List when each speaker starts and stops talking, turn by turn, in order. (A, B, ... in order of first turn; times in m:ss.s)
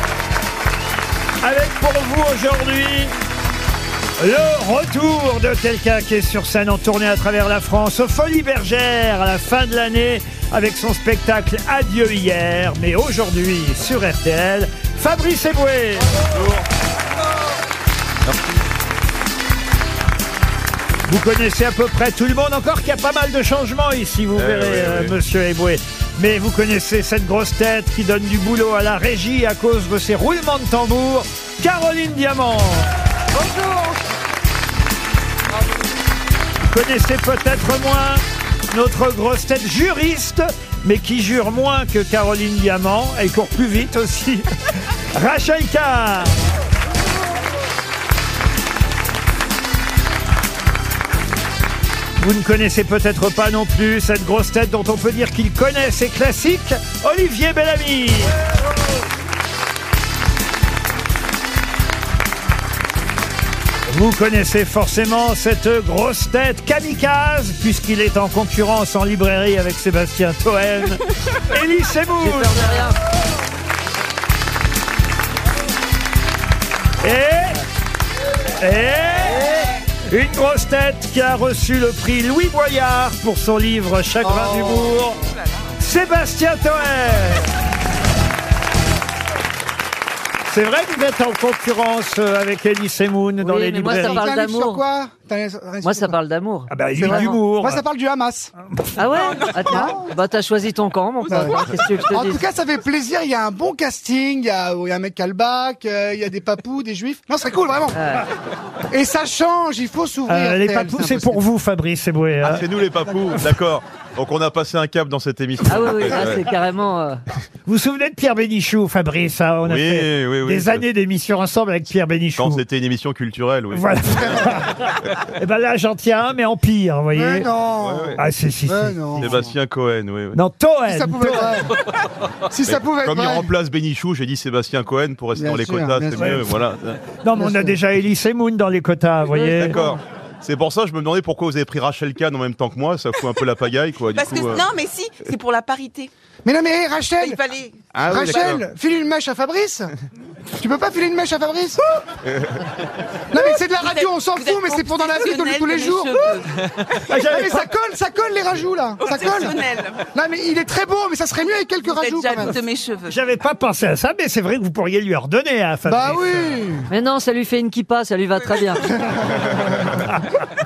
0:01.4-0:03.1 A
0:04.2-0:16.1 A
0:16.3-0:16.6 B
0:18.2-0:18.6 B
0:21.1-0:32.9 A
0:24.3-0:25.2 B
0:36.6-0:44.5 A
0:45.1-0:46.3 A
0:52.2-0:58.3 A
1:03.9-1:12.5 A
1:12.2-1:12.9 C
1:17.0-1:17.6 A
1:18.6-1:19.6 A
1:20.1-1:25.2 A
1:25.8-1:27.5 A
1:30.5-1:34.2 A
1:33.4-1:34.8 C
1:33.9-1:36.2 D
1:35.8-1:37.4 C
1:36.7-1:37.8 A
1:37.0-1:38.5 D
1:39.0-1:42.4 C
1:39.6-1:40.1 D
1:41.3-1:48.0 D
1:47.9-1:48.2 C
1:48.9-1:51.4 D
1:50.3-1:52.6 A
1:52.4-1:56.4 B
1:55.7-1:57.2 C
1:57.6-2:02.6 A
1:59.6-2:00.8 B
2:02.4-2:04.5 B
2:03.7-2:07.5 A
2:07.1-2:09.5 D
2:07.8-2:08.2 B
2:08.2-2:09.4 A
2:09.2-2:10.4 B
2:10.3-2:11.6 A
2:10.8-2:11.7 D
2:12.5-2:13.5 D
2:12.6-2:17.0 B
2:15.3-2:16.4 D
2:16.2-2:16.4 A
2:17.2-2:19.8 A
2:17.4-2:17.8 D
2:19.3-2:19.9 C
2:19.6-2:24.6 B
2:24.1-2:26.1 E
2:26.4-2:27.4 D
2:27.2-2:28.6 E
2:27.9-2:28.6 B
2:28.0-2:29.9 D
2:30.6-2:31.8 D
2:33.3-2:36.4 D
2:33.8-2:36.5 E
2:37.1-2:37.7 A
2:37.2-2:39.6 D
2:39.0-2:40.0 E
2:40.1-2:42.6 D
2:41.8-2:43.1 E
2:43.1-2:46.6 A
2:45.8-2:46.9 D
2:46.9-2:48.9 C